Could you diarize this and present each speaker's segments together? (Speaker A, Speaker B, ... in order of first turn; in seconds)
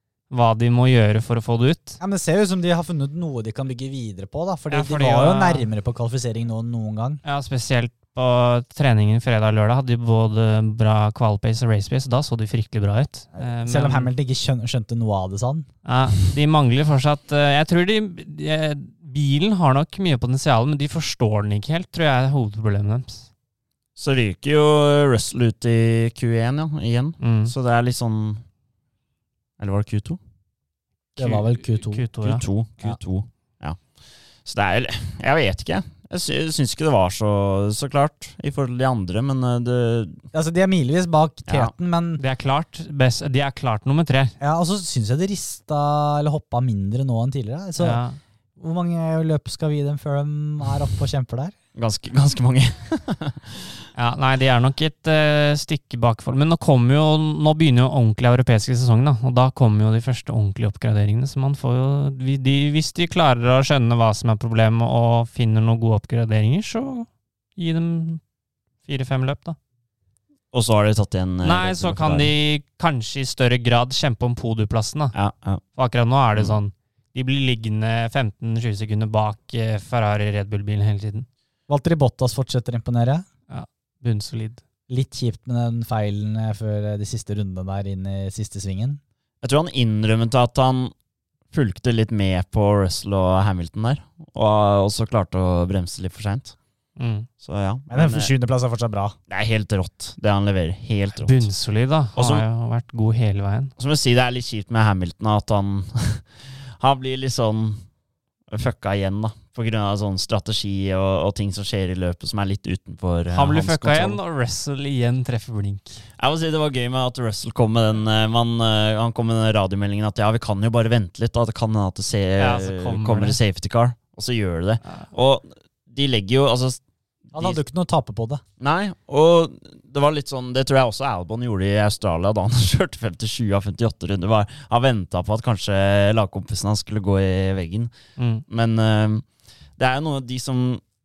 Speaker A: 0.3-2.0, 4.7-5.7, 7.2-14.1, 15.8-23.3, 27.2-27.5, 31.2-32.4, 42.2-44.3, 47.8-48.2, 53.9-68.2, 68.8-69.6, 71.4-75.1, 75.8-81.3, 83.5-84.6, 97.0-97.3, 101.1-103.7, 113.3-116.0, 122.4-123.4, 138.2-138.4
Speaker B: 2.0-7.2, 13.3-15.7, 31.2-32.0, 40.3-42.2, 44.4-48.0, 48.6-51.5, 81.7-83.2, 84.9-89.0, 97.9-99.2, 127.3-128.4
Speaker C: 24.0-28.4, 29.6-30.2, 32.2-33.8, 34.4-40.2, 41.5-41.7, 51.7-53.6, 70.5-72.3, 75.1-75.6, 89.4-90.9, 91.5-96.5, 97.4-98.3, 99.3-101.5, 102.2-102.4, 103.8-107.8, 108.5-114.2, 116.2-126.8, 127.3-127.6, 128.6-137.9, 138.5-139.2, 139.8-140.8